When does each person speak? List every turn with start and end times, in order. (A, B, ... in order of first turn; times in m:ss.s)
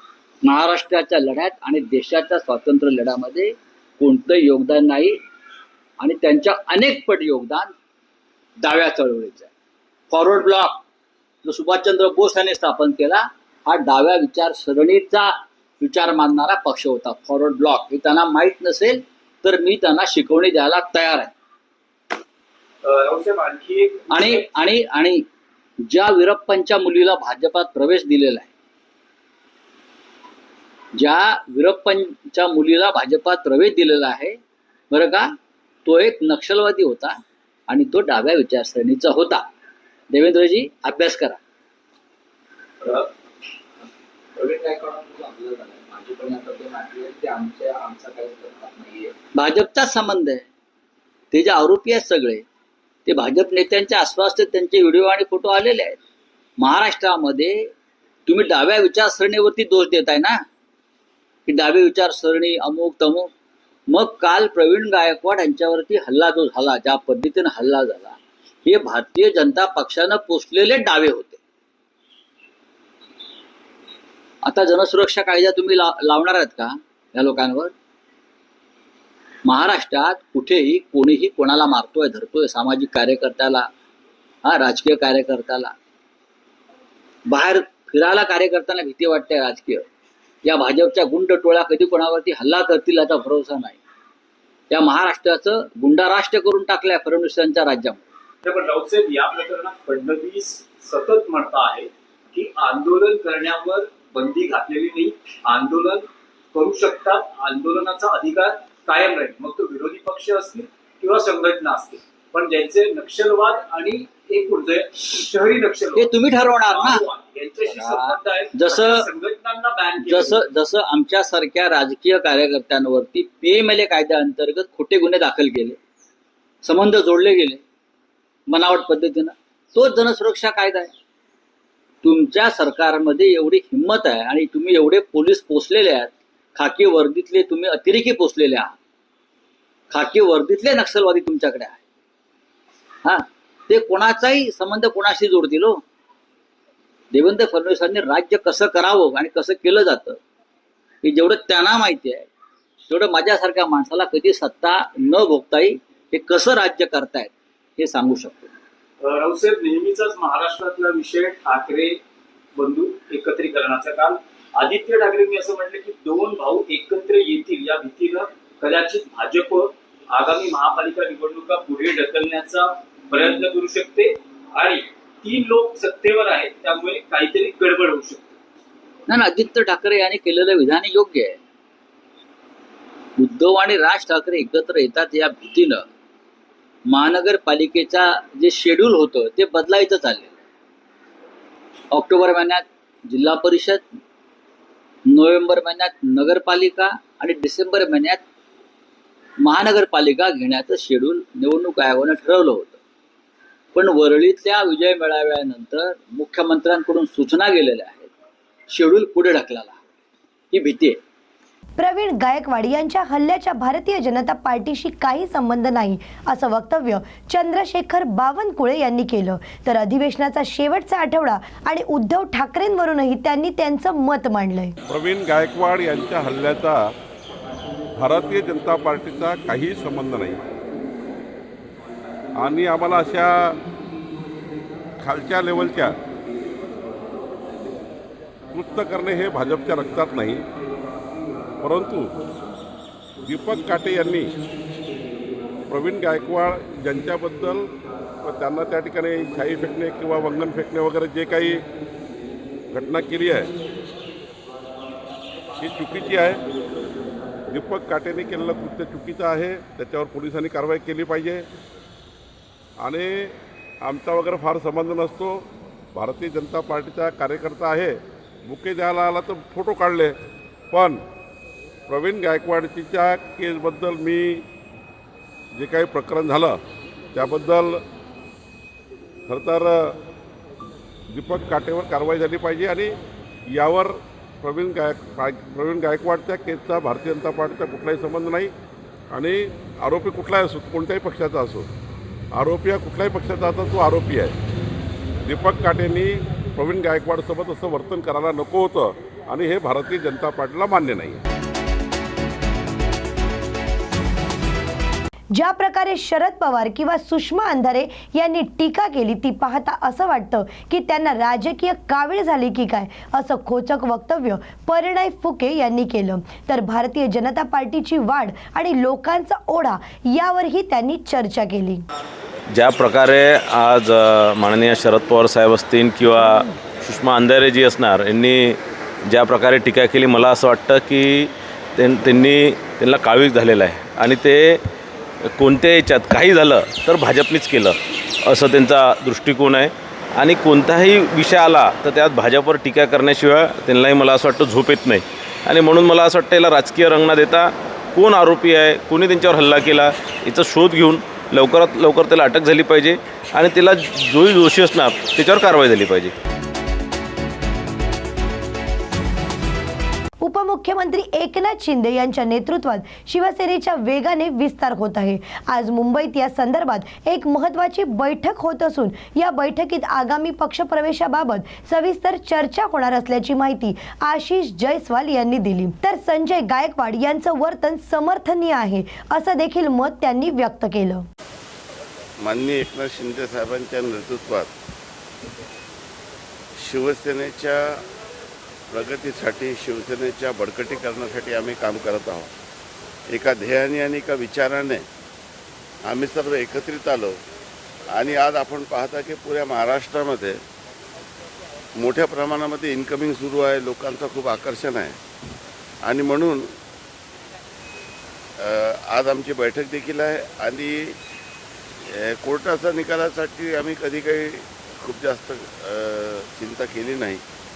0:00.4-0:05.2 A
0:06.0-0:07.7 A
0:08.6-0:09.5 A
0:10.1-0:10.8 A
0:11.4-0:21.3 A
0:22.8-0:24.4 B
0:24.1-0:25.3 A
0:25.8-0:28.5 A
0:30.9-0:34.4 A
0:34.9-0:35.3 A
0:35.8-0:39.4 A
0:40.1-0:41.4 A
0:42.8-0:43.1 A
0:44.4-0:50.4 A
0:51.3-0:52.4 A
0:53.0-0:56.0 A
0:56.6-0:57.7 A
0:58.2-1:00.4 A
1:01.4-1:03.3 A
1:03.9-1:11.4 A
1:14.4-1:17.7 A
1:19.4-1:23.7 A
1:24.4-1:25.7 A
1:27.3-1:29.8 A
1:30.4-1:33.8 A
1:34.7-1:38.0 A
1:38.4-1:46.0 B
1:46.5-1:56.1 B
1:56.0-1:57.0 A
1:56.7-2:00.2 B
1:57.6-1:59.0 A
2:00.0-2:05.8 A
2:06.6-2:07.6 A
2:08.5-2:10.9 A
2:12.0-2:18.8 A
2:19.9-2:21.8 A
2:23.0-2:25.8 A
2:27.1-2:30.2 A
2:31.0-2:32.3 A
2:32.9-2:38.5 A
2:39.0-2:41.9 B
2:42.6-2:58.3 B
2:59.1-3:01.4 A
3:03.2-3:05.8 A
3:06.9-3:10.4 A
3:11.9-3:13.8 A
3:15.1-3:18.2 A
3:19.4-3:22.8 A
3:23.7-3:28.1 A
3:28.7-3:29.8 A
3:30.5-3:31.0 A
3:31.8-3:44.8 C
3:44.9-3:46.9 D
3:48.0-3:50.5 D
3:52.4-3:53.6 D
3:55.0-3:56.0 D
3:58.5-4:00.4 D
4:01.6-4:02.1 D
4:03.2-4:04.4 D
4:05.7-4:11.6 D
4:12.7-4:13.5 D
4:15.6-4:16.4 D
4:17.5-4:21.4 D
4:22.8-4:30.2 D
4:30.7-4:31.0 D
4:31.9-4:34.5 D
4:35.6-4:36.6 D
4:37.1-4:37.8 D
4:39.3-4:40.0 D
4:41.1-4:43.0 D
4:43.5-4:48.5 D
4:49.1-4:51.7 D
4:52.4-4:54.3 D
4:55.2-5:01.2 D
5:05.3-5:21.8 C
5:22.5-5:34.6 E
5:35.2-5:56.2 E
6:00.2-6:21.0 C
6:22.2-6:24.5 F
6:26.6-6:27.8 F
6:28.7-6:32.3 F
6:33.1-6:34.8 F
6:35.8-6:37.2 F
6:37.9-6:40.4 F
6:41.7-6:45.0 F
6:45.8-6:46.5 F
6:48.4-6:51.0 F
6:51.8-6:57.2 F